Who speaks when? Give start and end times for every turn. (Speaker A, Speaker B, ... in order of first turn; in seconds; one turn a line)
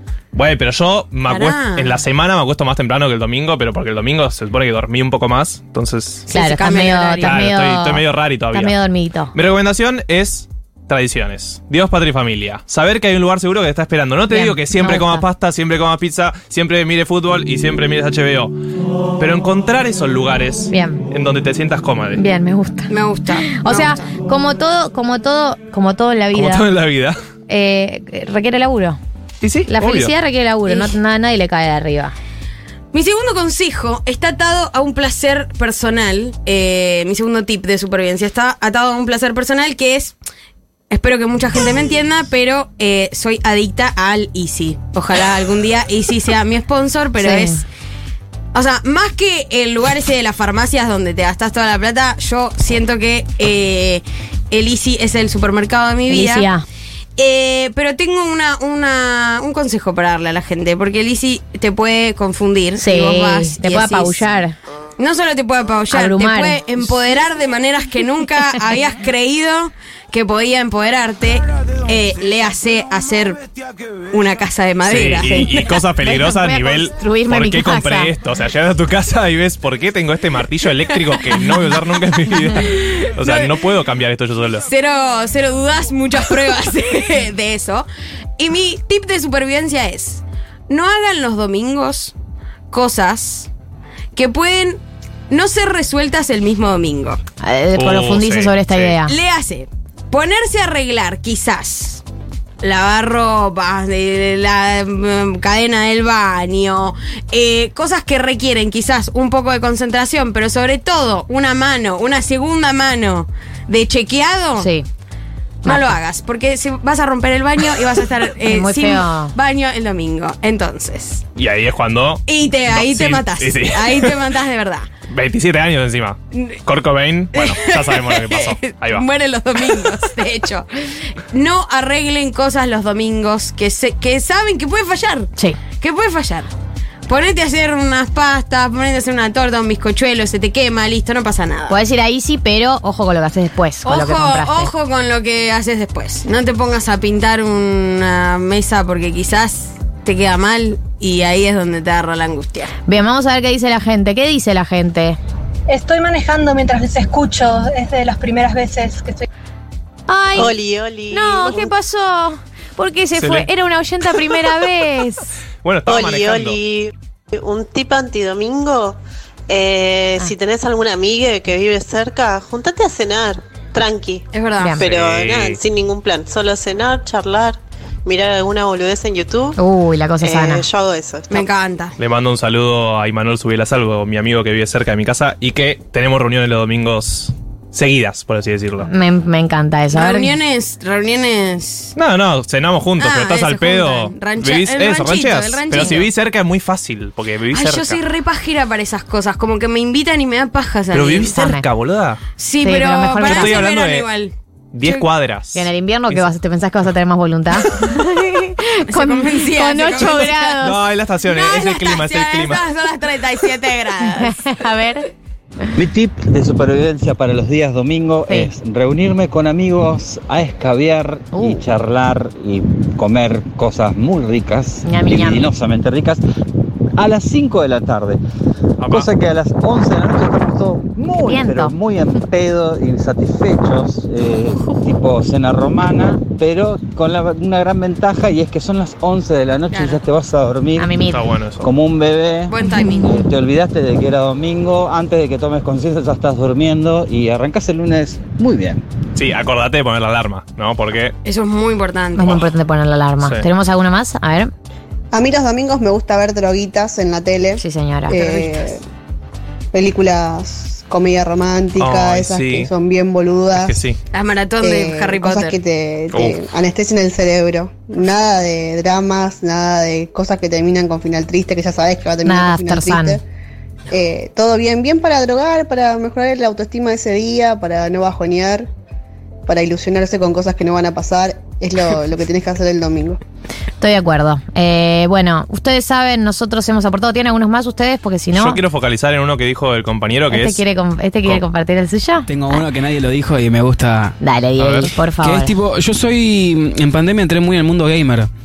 Speaker A: 0.3-6.2
Speaker B: 1.3-2.0
Speaker B: 6.3-7.4
Speaker C: 6.3-9.3
Speaker A: 7.2-8.7
Speaker A: 9.3-18.5
Speaker C: 14.3-15.3
Speaker A: 19.2-22.2
Speaker C: 20.7-21.0
Speaker C: 22.1-22.9
Speaker B: 22.9-24.0
Speaker C: 23.4-26.7
Speaker A: 26.3-27.1
Speaker C: 27.5-29.0
Speaker A: 29.4-30.1
Speaker C: 29.7-32.1
Speaker B: 30.7-30.9
Speaker B: 32.9-40.1
Speaker B: 40.9-47.6
Speaker C: 47.2-47.6
Speaker B: 48.5-56.5
Speaker C: 56.1-56.6
Speaker B: 57.2-64.2
Speaker C: 62.8-64.5
Speaker B: 65.0-73.4
Speaker C: 65.9-66.6
Speaker B: 74.1-75.6
Speaker A: 74.8-84.7
Speaker C: 75.1-78.1
Speaker B: 82.6-83.5
Speaker B: 84.6-92.1
Speaker B: 92.7-93.5
Speaker B: 94.1-97.2
Speaker C: 97.4-99.1
Speaker A: 97.7-99.0
Speaker B: 99.0-102.0
Speaker B: 102.6-114.7
Speaker C: 114.6-114.8
Speaker C: 115.6-116.0
Speaker B: 115.6-121.2
Speaker C: 118.4-119.3
Speaker A: 121.4-124.2
Speaker B: 122.3-124.9
Speaker A: 125.1-129.1
Speaker B: 126.3-126.6
Speaker B: 127.3-130.7
Speaker B: 131.3-136.5
Speaker B: 137.1-141.8
Speaker C: 141.7-144.7
Speaker B: 143.8-152.7
Speaker C: 152.9-155.2
Speaker D: 155.7-159.3
Speaker C: 160.1-160.6
Speaker E: 160.3-161.7
Speaker C: 161.1-165.3
Speaker A: 163.2-163.5
Speaker A: 165.6-166.6
Speaker E: 165.9-169.0
Speaker E: 169.5-174.2
Speaker B: 174.3-174.8
Speaker C: 174.6-174.8
Speaker E: 174.8-179.6
Speaker A: 174.9-175.6
Speaker C: 179.6-180.7
Speaker E: 180.2-181.5
Speaker B: 181.3-181.9
Speaker A: 182.0-188.9
Speaker C: 188.9-190.3
Speaker B: 189.9-191.9
Speaker A: 191.9-198.0
Speaker B: 193.0-196.1
Speaker B: 197.5-201.3
Speaker A: 200.9-202.2
Speaker C: 201.2-201.6
Speaker B: 202.4-205.1
Speaker C: 202.6-203.6
Speaker A: 203.2-204.1
Speaker A: 204.7-206.3
Speaker C: 205.5-210.8
Speaker B: 208.9-210.6
Speaker A: 210.6-212.6
Speaker B: 211.2-214.4
Speaker C: 214.1-215.1
Speaker F: 215.7-226.2
Speaker C: 221.3-221.6
Speaker C: 224.8-225.5
Speaker F: 227.0-228.2
Speaker A: 228.8-229.1
Speaker F: 228.8-240.9
Speaker C: 231.2-231.7
Speaker B: 239.7-240.0
Speaker C: 240.8-241.2
Speaker A: 241.1-241.7
Speaker F: 241.6-248.8
Speaker B: 242.5-243.2
Speaker C: 242.7-243.2
Speaker A: 249.1-251.1
Speaker B: 251.2-252.3
Speaker C: 252.1-254.5
Speaker G: 255.1-258.8
Speaker C: 257.6-258.2
Speaker B: 258.2-258.5
Speaker G: 259.7-263.8
Speaker A: 261.8-262.7
Speaker A: 263.6-264.0
Speaker B: 264.1-265.6
Speaker G: 264.6-273.2
Speaker A: 266.1-266.4
Speaker C: 272.2-273.2
Speaker G: 273.9-278.7
Speaker G: 279.5-283.2
Speaker C: 283.8-288.6
Speaker A: 288.3-290.6
Speaker C: 290.3-292.7
Speaker H: 292.3-294.1
Speaker C: 294.2-295.6
Speaker A: 294.6-294.9
Speaker H: 295.1-298.3